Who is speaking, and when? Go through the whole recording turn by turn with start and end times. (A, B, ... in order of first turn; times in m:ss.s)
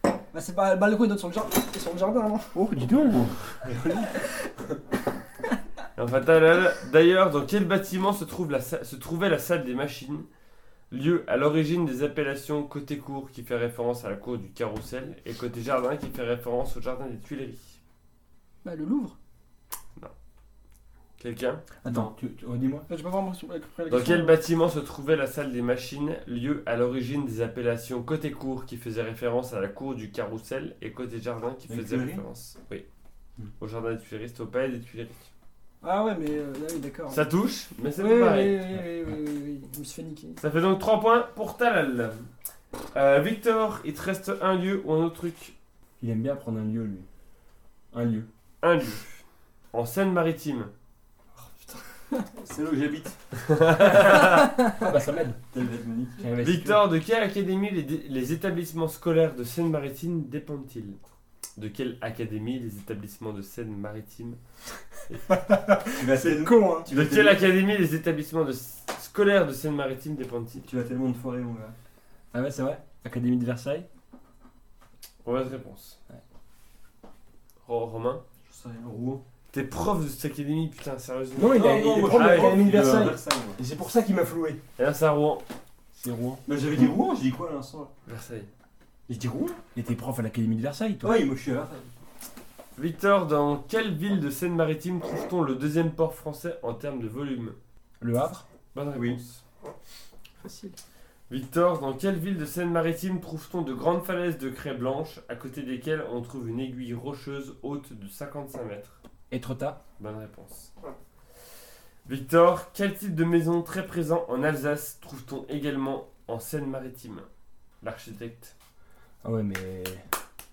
0:00.3-0:02.6 A
0:02.5-0:04.1 B
0:06.0-0:10.3 C
0:10.9-0:17.8 C
0:18.6-0:19.2 A
0:21.2-0:21.9 C
0:21.8-0:22.8 B
0:21.8-0:22.1 D
0:22.9-0:24.4 A
0:23.9-0:32.8 C
0:31.7-0:32.2 D
0:33.6-0:35.3 C
0:35.8-0:37.2 A
0:37.1-0:38.7 C
0:38.0-0:40.4 A
0:40.4-0:42.3 C
0:42.9-0:45.6 C
0:46.0-0:47.1 B
0:47.9-0:48.3 B
0:48.6-0:49.0 C
0:49.7-0:50.7 C
0:52.3-0:53.2 D
0:53.4-0:54.5 C
0:54.7-0:55.4 B
0:55.5-0:56.3 D
0:56.2-0:56.8 B
0:56.4-1:01.0 C
1:01.6-1:04.4 C
1:05.3-1:06.9 B
1:05.9-1:07.4 D
1:06.9-1:10.7 C
1:10.6-1:11.8 D
1:12.3-1:13.9 B
1:15.2-1:16.0 C
1:17.6-1:18.2 C
1:18.4-1:19.2 D
1:19.5-1:22.7 C
1:21.4-1:24.6 B
1:21.4-1:23.6 D
1:24.8-1:25.4 C
1:25.9-1:26.4 B
1:26.4-1:27.9 D
1:28.0-1:28.5 C
1:29.1-1:31.2 B
1:31.0-1:31.9 D
1:32.8-1:37.6 C
1:38.0-1:38.4 B
1:38.7-1:39.4 C
1:40.4-1:40.8 A
1:41.3-1:49.0 C
1:49.3-1:49.8 B
1:50.0-1:50.7 C
1:52.0-1:57.3 C
1:57.8-1:58.5 C
1:59.2-2:00.0 B